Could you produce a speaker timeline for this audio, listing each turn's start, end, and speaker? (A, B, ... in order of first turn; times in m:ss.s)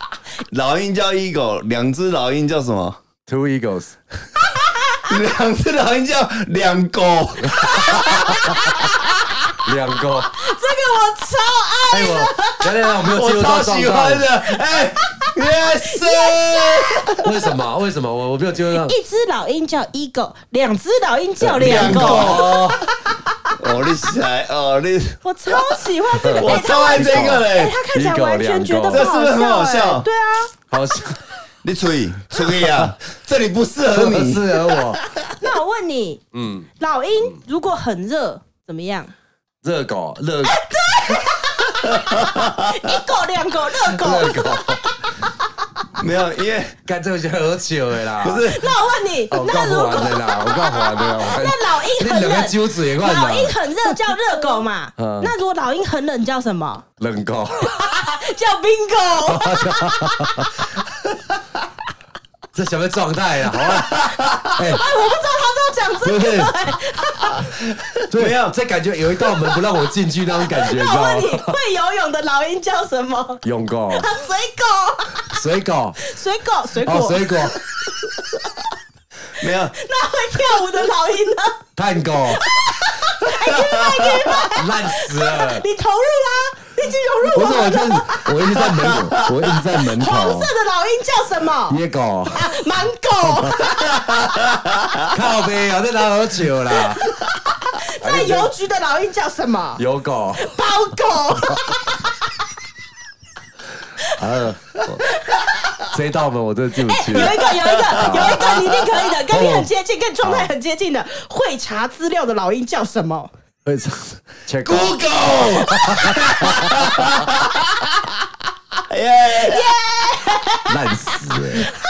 0:00.4-0:03.0 A
0:03.3-0:04.0 B
0:04.9-0:09.6 A
0:07.4-0:08.8 B
0:07.8-0:08.3 C
0:09.6-0:10.4 B
0:10.3-0:12.9 C
0:11.9-0:14.2 B
0:13.0-0:17.3 A
0:15.0-0:15.3 C
0:15.9-0:17.2 C
0:17.2-0:18.9 B
0:18.7-0:22.6 C
0:21.4-0:22.8 B
0:21.6-0:22.8 A
0:23.5-0:27.8 A
0:25.2-0:30.5 C
0:26.2-0:29.1 B
0:28.9-0:30.1 A
0:30.7-0:31.3 B
0:31.6-0:35.4 A
0:32.3-0:32.9 B
0:33.9-0:35.0 B
0:35.4-0:36.2 C
0:36.3-0:36.7 B
0:36.8-0:39.1 C
0:39.6-0:40.6 B
0:40.4-0:45.8 C
0:42.0-0:42.6 A
0:43.9-0:44.8 B
0:46.0-0:46.8 A
0:46.8-0:48.5 B
0:48.2-0:48.7 A
0:48.4-0:56.8 C
0:49.3-0:53.6 B
0:55.0-0:55.3 B
0:57.0-0:57.8 B
0:57.6-1:00.4 C
0:59.3-1:00.6 B
1:02.5-1:04.8 B
1:03.7-1:04.5 A
1:04.7-1:07.5 C
1:06.0-1:06.5 B
1:07.4-1:08.5 A
1:08.1-1:11.6 B
1:10.5-1:15.4 C
1:13.4-1:14.1 B
1:15.2-1:16.0 B
1:16.0-1:17.6 C
1:16.8-1:17.6 B
1:19.4-1:19.7 A
1:19.4-1:21.6 C
1:21.8-1:22.4 B
1:22.2-1:31.8 C
1:23.5-1:24.2 A
1:24.5-1:25.6 B
1:27.2-1:30.5 B
1:31.7-1:32.6 B
1:32.4-1:33.7 C
1:33.2-1:33.7 B
1:33.8-1:35.0 A
1:35.1-1:37.0 B
1:37.8-1:39.8 C
1:38.0-1:38.5 B
1:39.8-1:40.5 B
1:40.4-1:42.2 C
1:44.1-1:45.0 B
1:45.0-1:45.4 C
1:45.9-1:47.4 B
1:46.8-1:53.3 C
1:47.9-1:48.5 B
1:49.3-1:49.7 B
1:50.2-1:50.5 B
1:53.6-1:57.2 B
1:54.6-1:58.0 A
1:58.8-1:59.7 A
1:59.4-2:00.7 C
2:00.7-2:01.7 B